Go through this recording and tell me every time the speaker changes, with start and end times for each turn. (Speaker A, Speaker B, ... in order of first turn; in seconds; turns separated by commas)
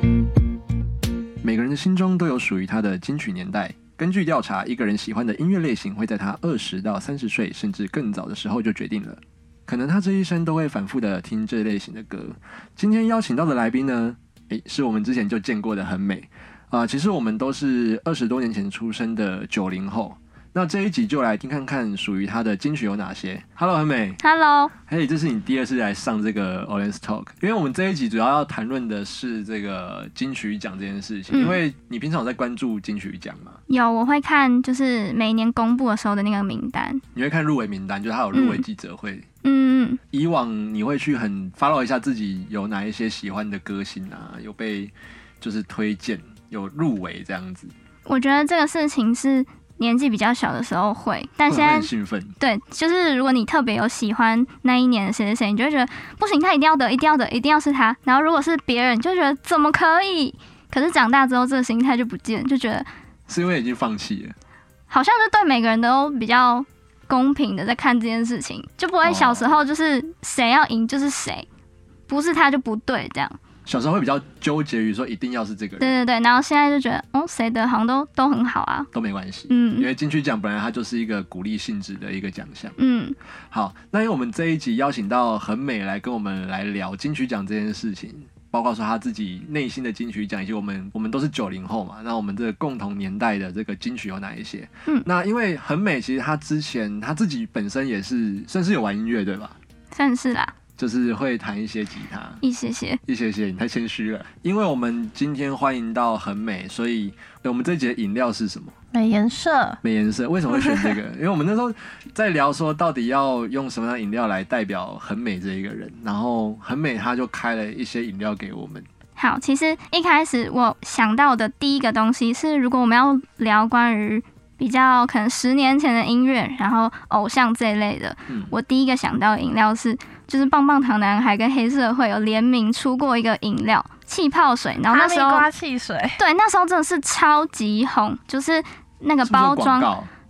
Speaker A: 1.4-24.2, Speaker B: 24.2-24.7, Speaker A: 24.9-33.6, Speaker B: 31.3-31.6, Speaker B: 33.7-37.0, Speaker A: 37.1-39.3, Speaker B: 38.3-38.6, Speaker B: 39.4-40.0, Speaker A: 40.1-47.7, Speaker B: 48.1-62.9, Speaker A: 51.5-52.4, Speaker A: 63.3-64.3, Speaker B: 64.9-71.5, Speaker A: 69.0-69.6, Speaker B: 72.1-73.4, Speaker A: 73.7-76.0, Speaker B: 75.8-78.9, Speaker A: 78.9-82.8, Speaker B: 79.5-79.9, Speaker B: 82.8-83.2, Speaker A: 83.5-99.6, Speaker B: 99.9-100.5, Speaker A: 100.8-102.4, Speaker B: 102.4-103.0, Speaker A: 103.1-108.7, Speaker C: 108.9-109.8, Speaker A: 109.8-118.9, Speaker B: 119.2-135.5, Speaker C: 134.9-136.2, Speaker B: 136.2-139.9, Speaker A: 139.2-140.1